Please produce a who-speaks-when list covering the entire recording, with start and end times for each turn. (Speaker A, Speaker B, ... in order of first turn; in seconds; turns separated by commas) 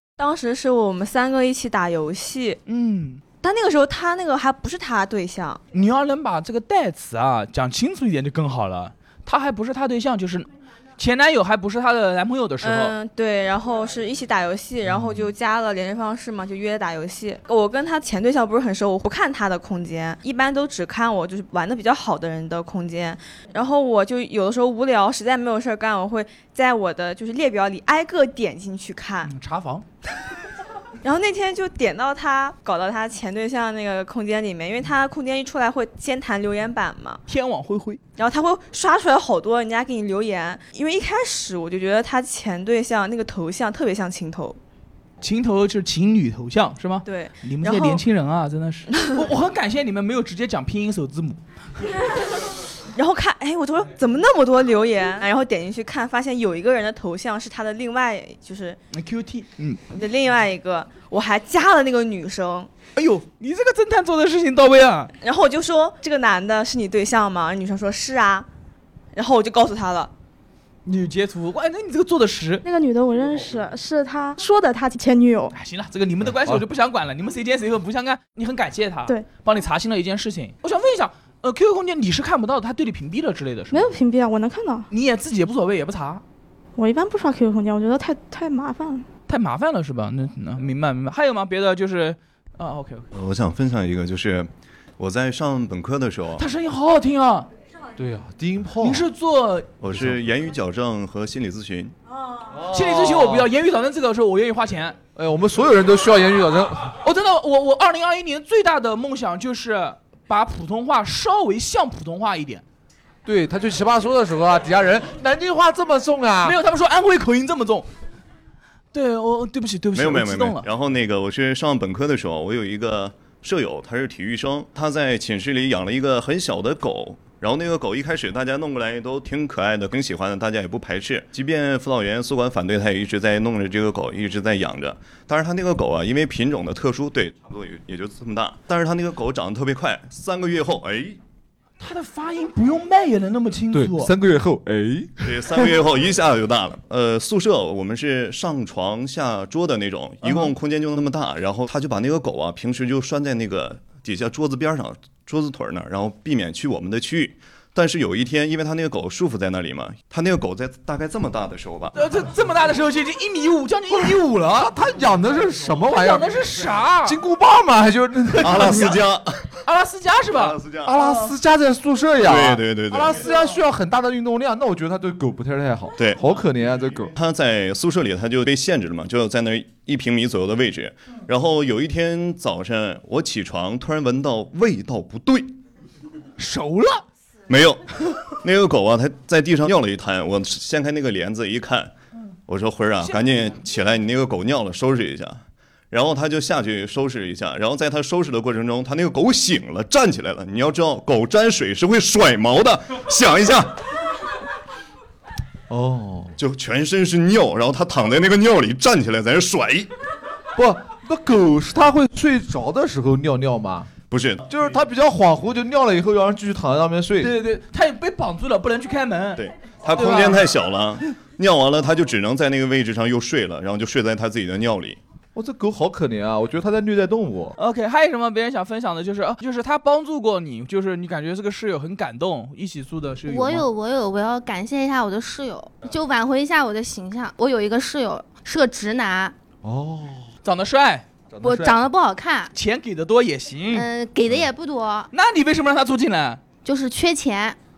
Speaker A: 0.2-2.6, Speaker B: 2.7-3.2, Speaker A: 3.4-5.6, Speaker B: 5.7-12.9, Speaker A: 12.6-29.3, Speaker C: 14.8-15.3, Speaker B: 29.2-29.9, Speaker A: 31.0-37.2, Speaker B: 37.3-38.0, Speaker A: 38.2-44.6, Speaker B: 45.2-51.4, Speaker A: 47.0-48.0, Speaker A: 48.9-49.3, Speaker A: 52.9-58.8, Speaker B: 58.9-59.8, Speaker A: 59.9-62.7, Speaker B: 63.0-65.1, Speaker A: 65.2-68.5, Speaker A: 69.1-70.1, Speaker B: 70.8-72.6, Speaker D: 72.6-75.5, Speaker B: 75.5-83.9, Speaker C: 76.3-76.6, Speaker D: 83.7-84.9, Speaker B: 84.9-86.2, Speaker D: 86.8-89.0, Speaker B: 89.3-93.1, Speaker E: 93.1-96.4, Speaker B: 96.4-97.5, Speaker C: 98.0-99.1, Speaker B: 98.8-99.7, Speaker E: 99.8-101.9, Speaker C: 99.9-100.2, Speaker C: 102.5-103.5, Speaker B: 102.6-105.0, Speaker C: 105.2-106.9, Speaker B: 106.9-112.6, Speaker C: 113.2-116.6, Speaker B: 116.4-117.9, Speaker B: 118.9-120.7, Speaker E: 119.9-141.2, Speaker B: 141.8-144.1, Speaker C: 143.7-145.6, Speaker E: 145.2-161.9, Speaker B: 161.9-164.7, Speaker C: 164.5-166.4, Speaker B: 165.9-167.2, Speaker C: 167.0-169.0, Speaker E: 168.4-169.6, Speaker B: 169.6-171.3, Speaker E: 170.3-170.9, Speaker C: 170.8-177.1, Speaker E: 172.2-173.2, Speaker E: 176.0-176.2, Speaker E: 177.1-185.6, Speaker B: 186.4-187.0, Speaker E: 187.5-187.8, Speaker E: 188.4-191.9, Speaker E: 192.5-203.8, Speaker C: 205.7-206.3, Speaker E: 206.4-209.9, Speaker C: 210.6-213.9, Speaker E: 214.1-214.4, Speaker C: 214.4-217.3, Speaker B: 217.2-220.5, Speaker E: 219.3-225.0, Speaker C: 225.3-227.6, Speaker B: 227.6-233.7, Speaker F: 233.3-239.3, Speaker C: 239.6-240.3, Speaker B: 240.4-241.1, Speaker C: 241.3-241.8, Speaker F: 241.4-242.5, Speaker B: 242.5-243.9, Speaker F: 243.7-245.1, Speaker B: 245.1-246.4, Speaker F: 246.6-247.6